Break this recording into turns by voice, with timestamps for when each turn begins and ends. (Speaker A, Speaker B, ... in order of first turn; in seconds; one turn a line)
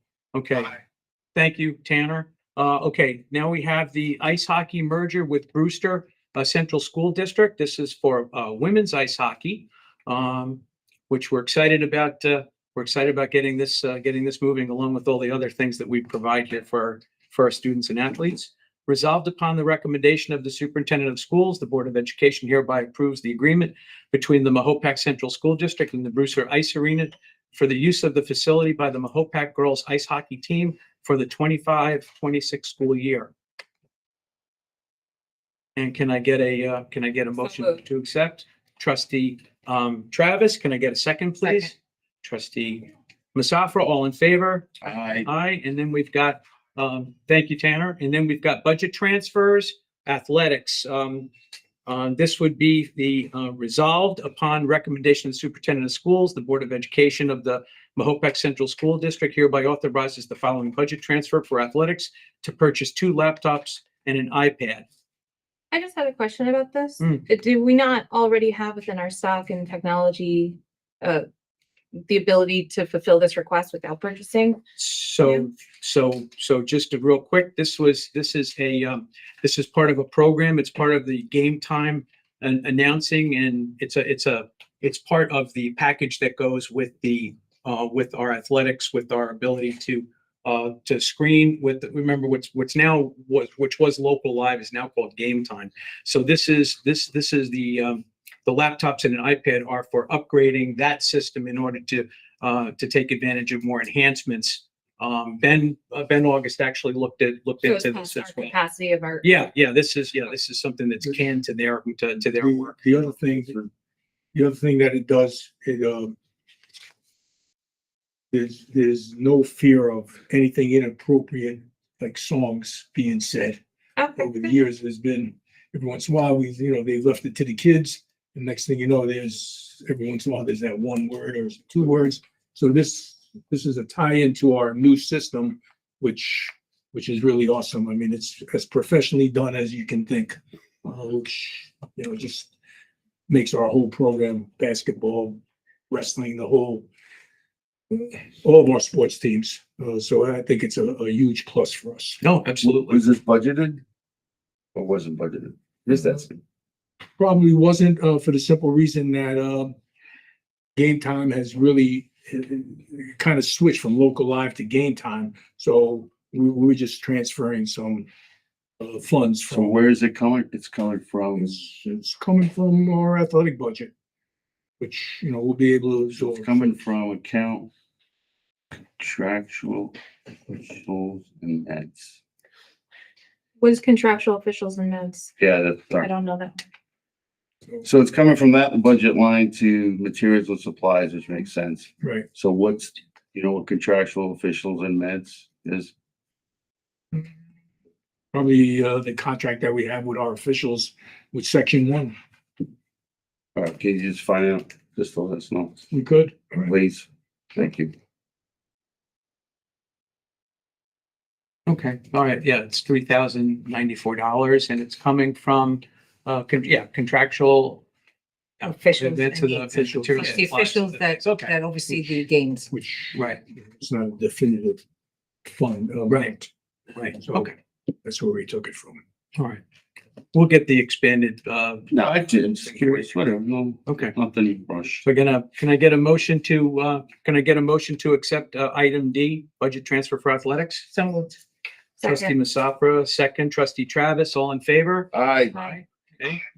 Speaker A: 0.3-0.8
Speaker A: 1.3-33.3
Speaker A: 35.8-44.7
Speaker B: 44.8-45.3
Speaker A: 45.2-51.3
Speaker A: 51.9-64.8
Speaker C: 65.7-71.2
Speaker A: 67.0-67.2
Speaker C: 72.0-74.6
Speaker A: 74.8-108.5
Speaker C: 107.6-109.3
Speaker A: 109.2-112.8
Speaker D: 112.3-113.6
Speaker D: 114.3-116.1
Speaker D: 118.3-123.6
Speaker C: 124.0-124.5
Speaker D: 124.2-142.5
Speaker D: 143.3-146.9
Speaker D: 147.9-152.2
Speaker A: 152.2-153.0
Speaker B: 152.6-153.8
Speaker B: 154.7-156.4
Speaker D: 157.2-159.8
Speaker D: 160.8-168.1
Speaker D: 168.8-169.8
Speaker B: 169.5-171.6
Speaker D: 171.4-173.9
Speaker D: 174.8-176.7
Speaker B: 176.1-177.7
Speaker B: 178.8-180.0
Speaker B: 180.5-182.2
Speaker C: 183.6-185.3
Speaker B: 185.4-186.1
Speaker C: 186.0-186.6
Speaker B: 187.8-195.9
Speaker D: 192.0-192.3
Speaker D: 198.3-202.2
Speaker B: 203.6-205.8
Speaker D: 205.9-206.7
Speaker B: 206.6-207.9
Speaker A: 211.7-217.8
Speaker A: 218.6-221.5
Speaker E: 218.6-222.7
Speaker D: 219.9-220.4
Speaker D: 222.7-224.8
Speaker A: 223.1-223.4
Speaker D: 225.4-226.5
Speaker A: 226.9-227.5
Speaker D: 227.2-229.0
Speaker A: 229.3-229.6
Speaker A: 230.3-233.1
Speaker B: 231.9-235.0
Speaker A: 233.9-234.1
Speaker A: 235.0-241.0
Speaker C: 242.0-242.3
Speaker A: 242.0-246.4
Speaker B: 245.1-245.6